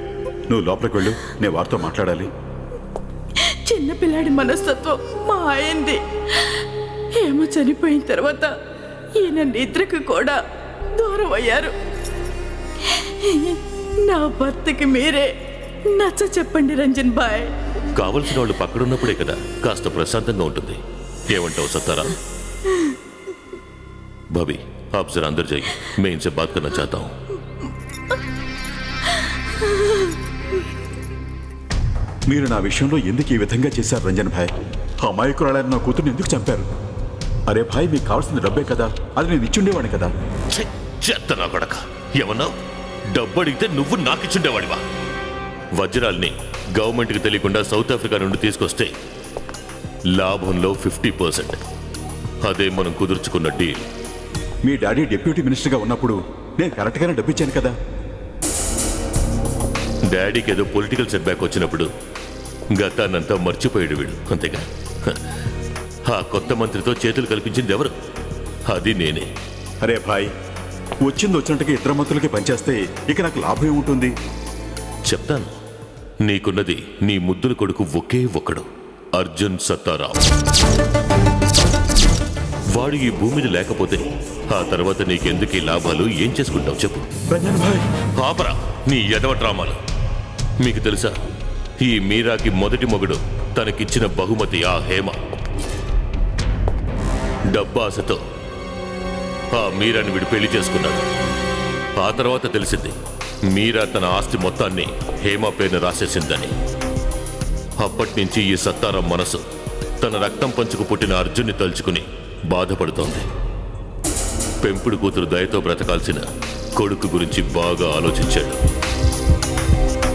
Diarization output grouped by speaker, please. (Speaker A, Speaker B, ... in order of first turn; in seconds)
Speaker A: 0.5-2.3, 32.3-34.5, 35.0-36.6, 37.5-40.1, 54.6-57.7, 69.8-70.3, 71.0-74.1, 87.3-87.8
Speaker B: 3.4-6.6, 7.2-8.5, 9.2-10.4, 10.9-11.7, 12.9-15.3, 15.9-17.5
Speaker C: 17.9-22.1, 24.3-27.1, 40.5-42.5, 43.1-44.8, 45.8-48.9, 50.1-51.6, 52.4-53.8, 60.1-61.9, 62.7-65.2, 66.1-67.9, 68.7-69.3, 75.1-75.5, 76.2-80.2, 82.7-87.0, 88.2-89.8, 90.6-91.2, 91.8-95.2, 97.5-98.2, 99.5-101.0, 102.0-103.0, 103.5-106.5, 107.8-109.4, 110.0-113.2, 114.6-118.6